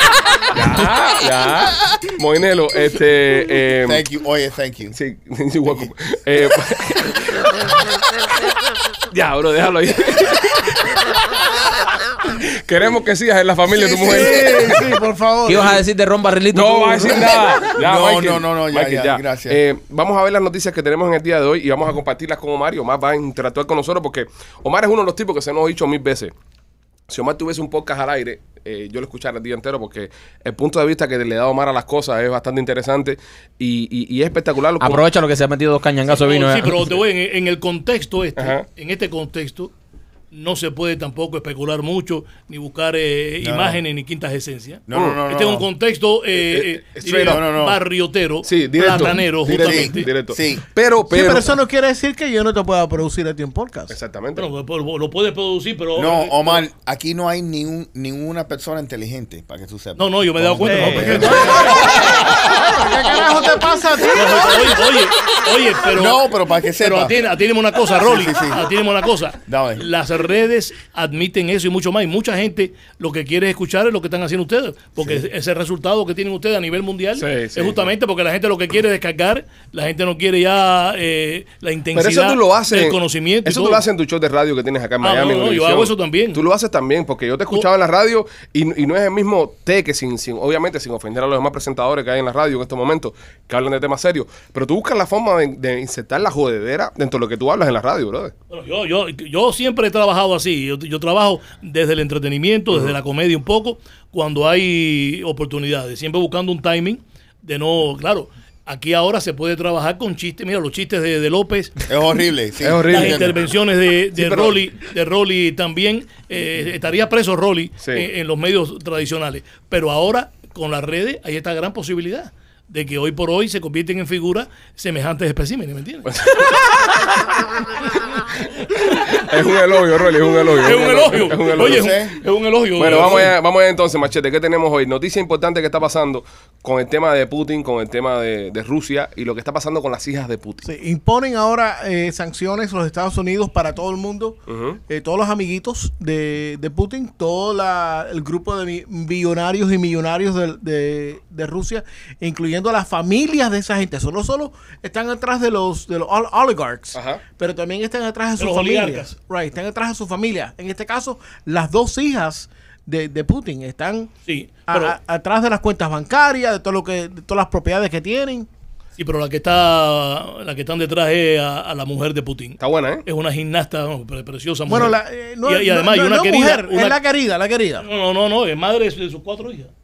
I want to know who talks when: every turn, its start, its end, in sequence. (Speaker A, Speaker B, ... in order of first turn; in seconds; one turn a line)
Speaker A: 0.5-4.0
Speaker B: 3.9-5.0
Speaker A: 4.9-7.8
Speaker B: 5.7-5.9
Speaker A: 9.1-11.0
Speaker A: 12.2-14.9
Speaker C: 13.8-15.8
Speaker D: 15.4-17.4
Speaker A: 16.5-26.3
Speaker B: 17.7-19.6
Speaker A: 27.1-35.1
Speaker D: 34.8-36.9
Speaker E: 36.1-39.7
Speaker A: 38.4-38.6
Speaker E: 40.3-50.1
Speaker B: 43.4-43.8
Speaker B: 44.9-45.7
Speaker A: 44.9-45.2
Speaker A: 46.4-47.5
Speaker B: 47.2-47.8
Speaker A: 48.4-51.6
Speaker B: 49.5-50.6
Speaker C: 51.1-54.0
Speaker A: 53.9-54.5
Speaker E: 54.4-56.6
Speaker B: 56.0-63.0
Speaker E: 60.0-62.1
Speaker C: 60.7-64.8
Speaker E: 64.1-66.3
Speaker B: 65.8-67.2
Speaker E: 66.8-83.8
Speaker B: 67.9-68.7
Speaker B: 69.5-69.9
Speaker A: 77.2-77.9
Speaker A: 81.9-98.3
Speaker E: 85.0-86.4
Speaker E: 98.5-111.8
Speaker B: 111.9-113.4
Speaker A: 112.6-113.4
Speaker E: 112.9-126.1
Speaker A: 114.1-114.6
Speaker A: 117.8-118.1
Speaker A: 126.1-126.8
Speaker A: 128.8-132.0
Speaker E: 130.6-133.3
Speaker B: 131.5-132.2
Speaker A: 132.8-140.7
Speaker C: 140.6-144.4
Speaker A: 144.5-144.8
Speaker C: 144.9-164.1
Speaker A: 156.9-157.2
Speaker E: 158.4-159.1
Speaker E: 164.3-165.0
Speaker C: 164.7-168.5
Speaker E: 169.0-177.0
Speaker A: 172.6-173.0
Speaker C: 174.7-177.9
Speaker E: 177.8-179.7